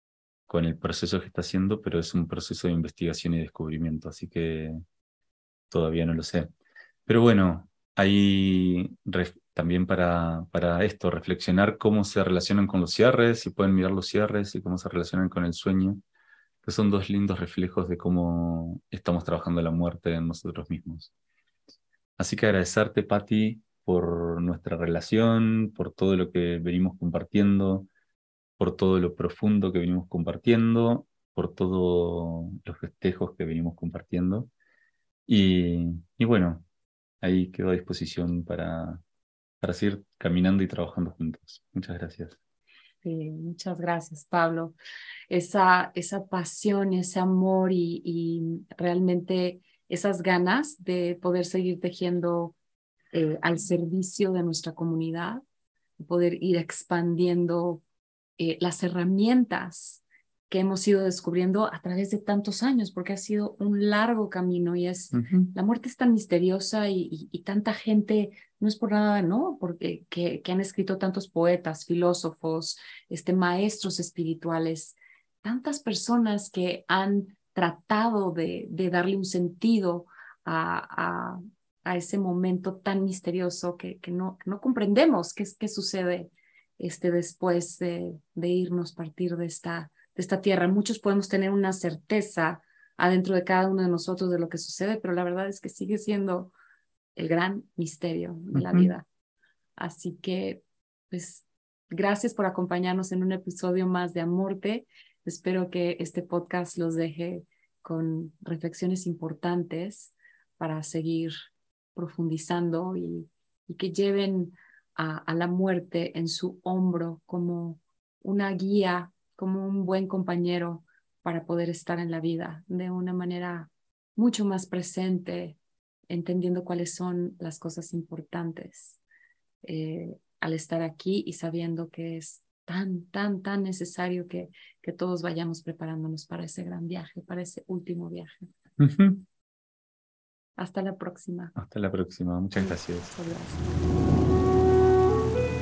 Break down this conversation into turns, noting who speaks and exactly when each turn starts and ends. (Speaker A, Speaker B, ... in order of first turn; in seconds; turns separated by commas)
Speaker A: 0.5-4.8, Speaker A: 5.7-6.5, Speaker A: 7.1-16.0, Speaker A: 16.6-21.1, Speaker A: 22.2-27.9, Speaker A: 28.6-34.5, Speaker A: 35.3-36.6, Speaker A: 37.2-39.0, Speaker A: 39.6-42.4, Speaker B: 43.0-44.7, Speaker B: 45.3-52.5, Speaker B: 53.1-55.4, Speaker B: 56.0-57.8, Speaker B: 58.4-96.5, Speaker A: 65.1-65.5, Speaker B: 97.2-99.0, Speaker A: 98.5-98.9, Speaker B: 99.8-111.3, Speaker B: 111.9-125.6, Speaker B: 126.1-129.0, Speaker B: 129.6-138.5, Speaker A: 138.8-139.2, Speaker B: 140.6-141.5, Speaker A: 141.6-143.1, Speaker B: 142.6-143.7